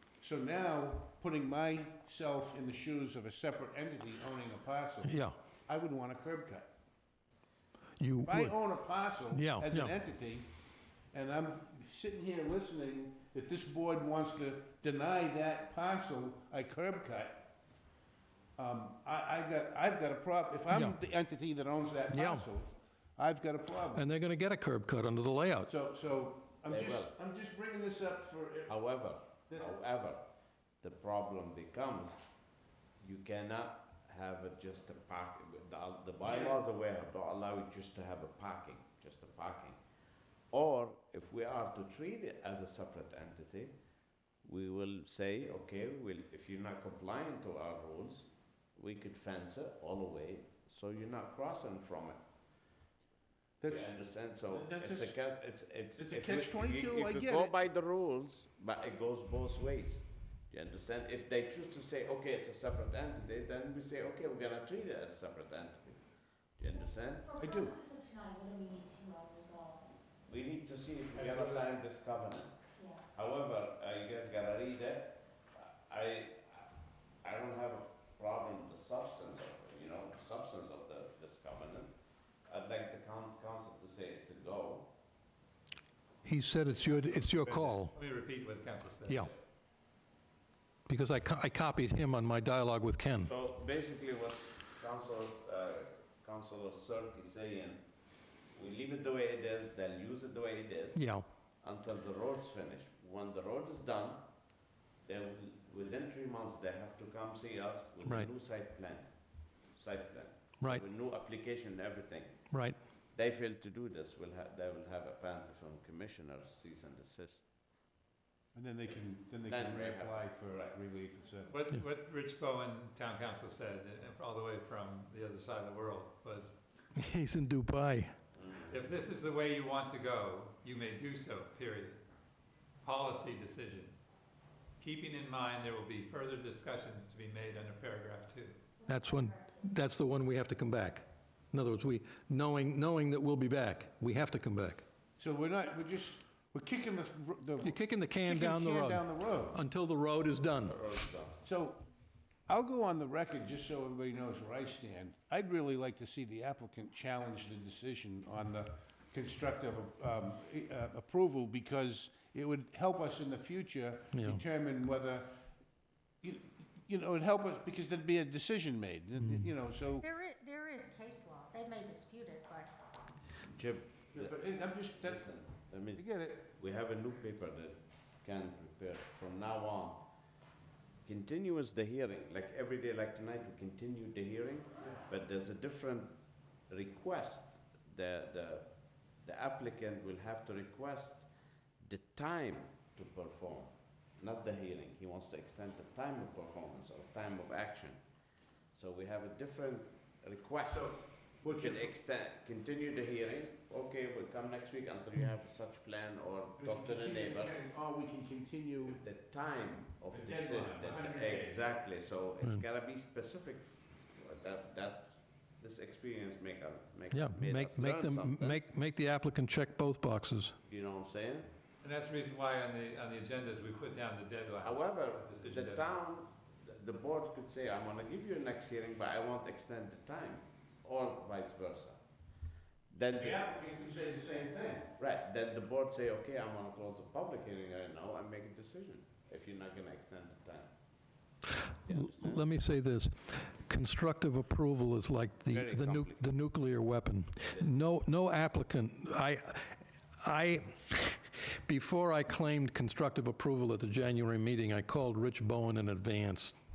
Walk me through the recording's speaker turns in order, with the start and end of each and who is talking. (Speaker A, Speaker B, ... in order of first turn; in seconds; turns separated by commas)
Speaker A: 0.2-6.7, Speaker B: 5.0-5.3, Speaker B: 8.0-8.6, Speaker A: 8.2-10.5, Speaker B: 9.3-9.9, Speaker A: 11.1-17.5, Speaker A: 18.6-24.1, Speaker B: 20.7-21.0, Speaker B: 22.1-22.5, Speaker B: 23.9-25.7, Speaker A: 25.6-28.8, Speaker C: 26.7-27.1, Speaker C: 28.7-30.2, Speaker C: 30.8-32.2, Speaker C: 33.0-39.8, Speaker A: 36.2-36.6, Speaker C: 40.5-43.7, Speaker C: 44.4-52.2, Speaker A: 53.6-55.2, Speaker C: 53.7-66.0, Speaker A: 56.0-57.6, Speaker C: 66.6-67.3, Speaker D: 67.2-70.0, Speaker A: 67.4-67.8, Speaker C: 70.2-72.6, Speaker A: 71.2-71.6, Speaker D: 72.8-73.0, Speaker C: 73.1-76.7, Speaker C: 77.2-81.9, Speaker C: 82.5-84.9, Speaker B: 86.2-87.9, Speaker E: 87.1-89.3, Speaker B: 89.1-89.3, Speaker B: 90.9-93.3, Speaker C: 93.2-97.8, Speaker C: 98.5-101.0, Speaker B: 101.0-101.2, Speaker C: 101.6-104.2, Speaker C: 105.0-109.1, Speaker C: 109.7-112.5, Speaker B: 112.5-112.8, Speaker C: 113.1-117.5, Speaker A: 118.5-121.6, Speaker C: 119.5-120.3, Speaker E: 121.5-126.5, Speaker B: 127.0-128.2, Speaker C: 128.3-128.9, Speaker E: 128.7-132.0, Speaker E: 132.8-133.9, Speaker E: 134.8-138.6, Speaker D: 138.8-139.7, Speaker B: 138.9-144.8, Speaker A: 145.2-149.6, Speaker B: 147.6-150.8, Speaker C: 150.7-151.4, Speaker A: 151.4-151.8, Speaker A: 152.5-165.4, Speaker B: 164.1-164.4, Speaker A: 166.2-170.1, Speaker B: 169.2-169.5, Speaker D: 170.0-172.7, Speaker C: 173.4-174.3, Speaker A: 174.1-175.4, Speaker C: 174.9-176.0, Speaker A: 175.9-176.5, Speaker C: 176.6-180.0, Speaker C: 181.1-186.1, Speaker C: 186.7-188.7, Speaker C: 189.2-191.3, Speaker C: 191.8-198.0, Speaker C: 198.7-207.6, Speaker A: 200.7-201.9, Speaker A: 206.6-209.0, Speaker C: 208.8-218.6, Speaker A: 210.1-211.7, Speaker B: 217.1-220.5, Speaker C: 220.6-221.5, Speaker E: 221.8-226.1, Speaker C: 224.6-232.0, Speaker C: 232.9-233.5, Speaker A: 233.2-234.9, Speaker C: 235.0-240.7, Speaker C: 241.7-242.4, Speaker B: 241.9-256.6, Speaker C: 245.5-246.3